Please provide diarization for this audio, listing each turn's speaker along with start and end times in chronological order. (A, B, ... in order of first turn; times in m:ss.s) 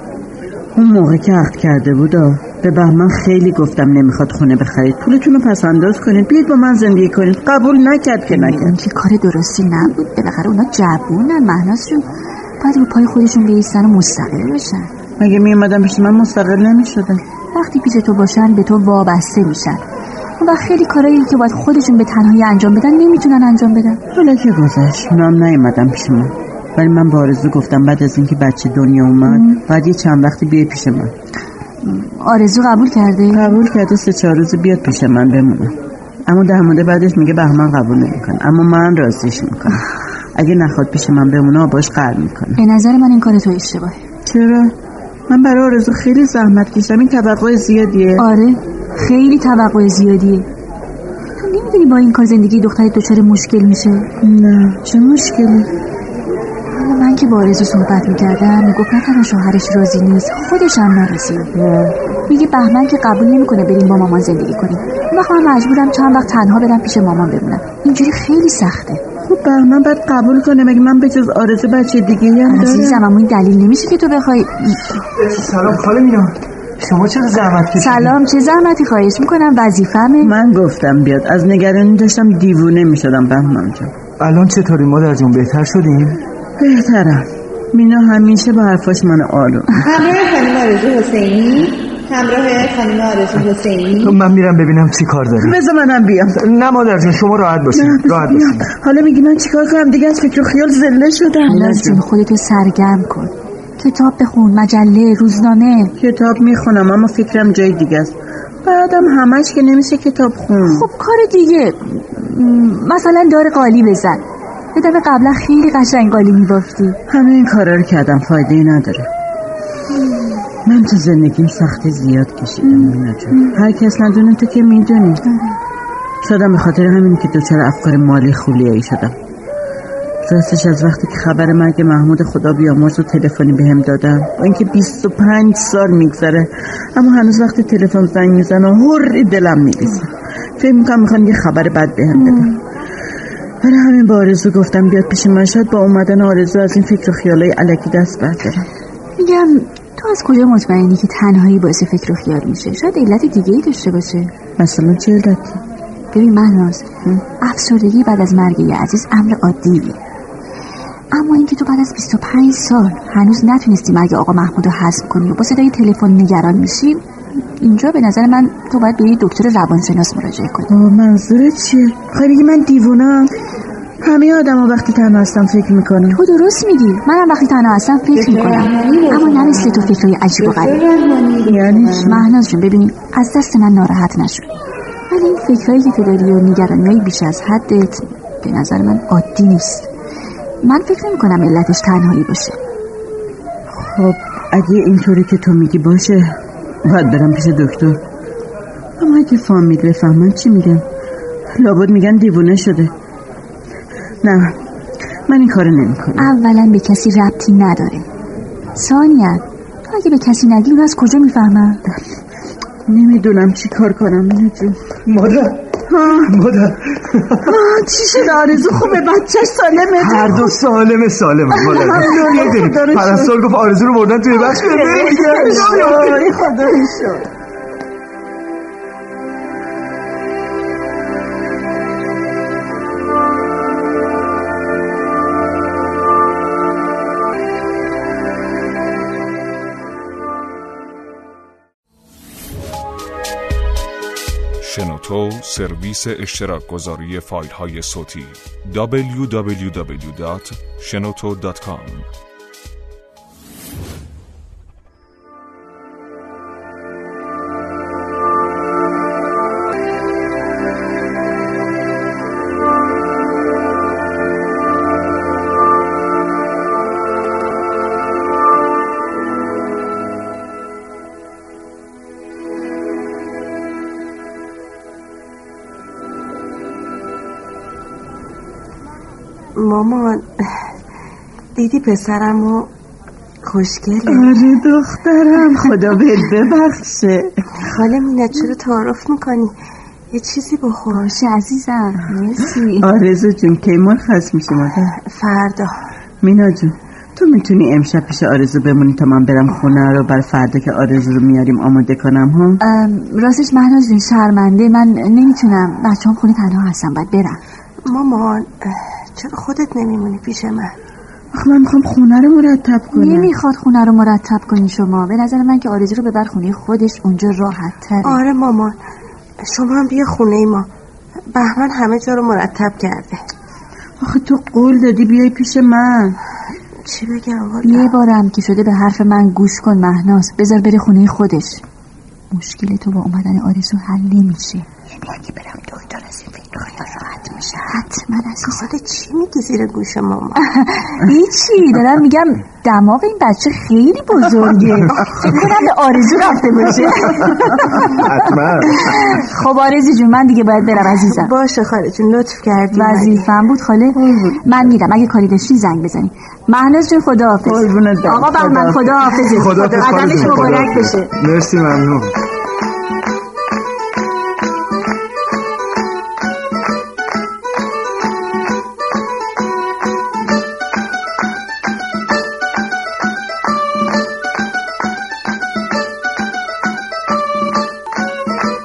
0:00.7-0:08.8 A
0:08.3-0:12.1 B
0:12.6-0:14.9 B
0:15.2-0:17.2 A
0:17.5-0:19.8 B
0:20.4-0:24.0 B
0:24.1-0:31.1 A
0:31.8-0:33.6 B
0:33.3-0:35.7 A
0:36.3-0:42.6 A
0:42.6-0:44.0 B
0:44.2-0:44.7 A
0:45.3-0:48.2 A
0:48.2-0:50.5 B
0:51.4-0:54.1 B
0:54.2-0:55.7 A
0:56.7-1:01.5 B
1:01.6-1:01.9 A
1:02.3-1:09.0 B
1:09.2-1:13.0 A
1:12.5-1:14.9 B
1:15.2-1:18.2 C
1:17.8-1:20.3 B
1:20.2-1:23.9 A
1:24.2-1:26.2 C
1:26.6-1:30.0 A
1:29.8-1:34.1 D
1:34.0-1:35.6 C
1:35.4-1:36.4 A
1:36.4-1:38.6 C
1:37.7-1:42.0 A
1:41.5-1:45.9 B
1:46.0-1:50.9 A
1:50.6-1:54.2 B
1:54.7-1:57.0 B
1:57.1-1:59.1 A
2:00.6-2:05.2 A
2:02.7-2:03.5 B
2:06.2-2:09.1 A
2:10.2-2:22.6 A
2:22.2-2:22.5 B
2:23.6-2:28.7 A
2:29.2-2:34.3 B
2:34.6-2:35.6 A
2:36.1-2:36.9 B
2:37.4-2:40.0 B
2:41.1-2:50.7 B
2:50.7-2:53.3 A
2:54.0-2:56.2 A
2:56.1-3:00.8 B
2:58.1-3:01.9 D
3:01.4-3:02.3 A
3:01.8-3:04.5 B
3:05.1-3:09.9 B
3:10.6-3:12.6 B
3:13.7-3:18.0 A
3:19.0-3:20.8 A
3:21.5-3:22.9 A
3:24.2-3:24.6 A
3:25.3-3:26.3 A
3:26.2-3:28.0 B
3:28.7-3:31.8 B
3:32.9-3:34.8 A
3:35.1-3:35.6 C
3:35.9-3:36.4 A
3:36.2-3:37.5 C
3:37.4-3:40.6 A
3:39.9-3:46.2 C
3:41.6-3:43.3 A
3:44.5-3:47.2 A
3:44.9-3:46.1 B
4:04.6-4:12.1 E
4:39.5-4:40.7 F
4:41.6-4:42.7 F
4:43.4-4:44.3 F
4:44.1-4:47.5 A
4:47.6-4:49.5 F
4:50.1-4:51.0 F
4:50.9-4:52.9 B
4:52.8-4:55.0 A
4:55.0-4:55.7 F
4:56.2-5:02.6 A
5:02.6-5:07.4 B
5:07.8-5:10.7 F
5:11.3-5:13.3 A
5:12.9-5:18.2 B
5:18.0-5:18.8 F
5:19.4-5:20.7 F
5:21.3-5:23.2 F
5:24.0-5:26.2 A
5:26.8-5:27.9 F
5:27.6-5:31.6 B
5:32.3-5:38.6 B
5:38.4-5:40.4 F
5:40.4-5:51.3 B
5:47.7-5:48.9 C
5:50.8-5:53.3 F
5:52.7-6:01.1 B
5:53.9-5:54.4 A
5:57.4-5:59.1 A
5:59.3-6:02.2 C